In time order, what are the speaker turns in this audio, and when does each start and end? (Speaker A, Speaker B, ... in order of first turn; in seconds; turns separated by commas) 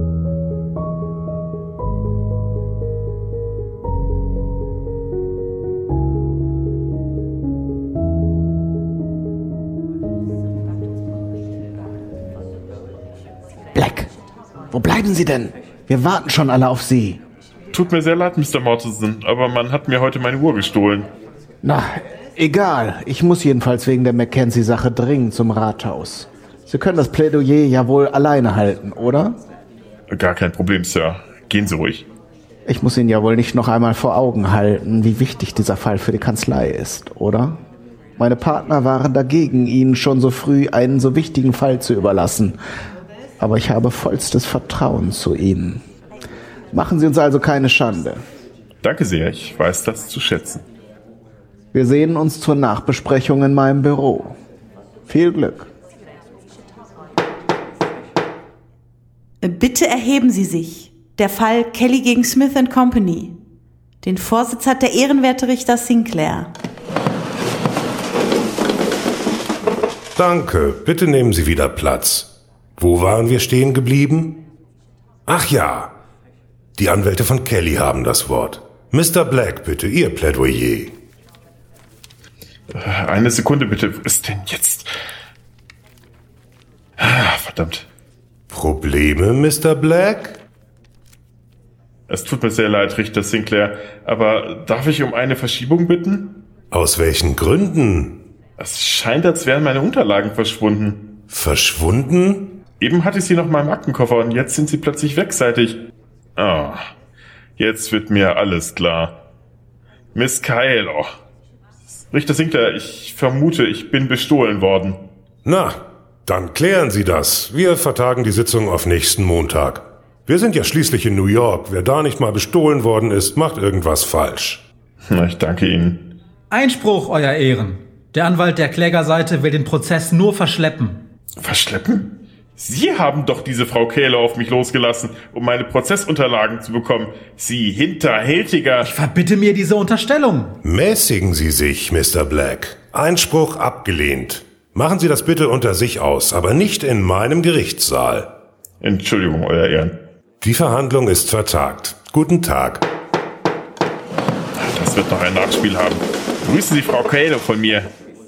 Speaker A: 13.7-14.1, Speaker A: 14.7-17.2, Speaker B: 17.7-21.1, Speaker A: 21.6-29.4, Speaker B: 30.1-32.1, Speaker A: 32.6-37.6, Speaker A: 38.2-42.6, Speaker A: 43.4-45.8, Speaker A: 46.7-48.2, Speaker B: 48.8-50.6, Speaker A: 51.7-54.4, Speaker A: 55.1-55.7, Speaker C: 59.4-63.4, Speaker C: 64.0-66.5, Speaker D: 70.1-74.4, Speaker D: 75.3-75.9, Speaker D: 76.8-81.0, Speaker B: 82.7-84.9, Speaker B: 87.0-87.8, Speaker D: 88.5-90.4, Speaker B: 92.1-96.4, Speaker D: 96.7-98.2, Speaker B: 98.6-101.1, Speaker D: 101.3-102.6, Speaker B: 102.8-105.8, Speaker B: 106.4-106.9, Speaker B: 107.6-109.1, Speaker B: 110.1-111.1, Speaker B: 112.1-115.0, Speaker D: 115.4-124.6, Speaker B: 125.0-126.1, Speaker E: 126.5-131.0, Speaker B: 131.4-138.9, Speaker E: 138.8-140.6, Speaker D: 140.6-148.3, Speaker B: 148.8-150.0, Speaker D: 150.4-152.8, Speaker B: 154.6-157.9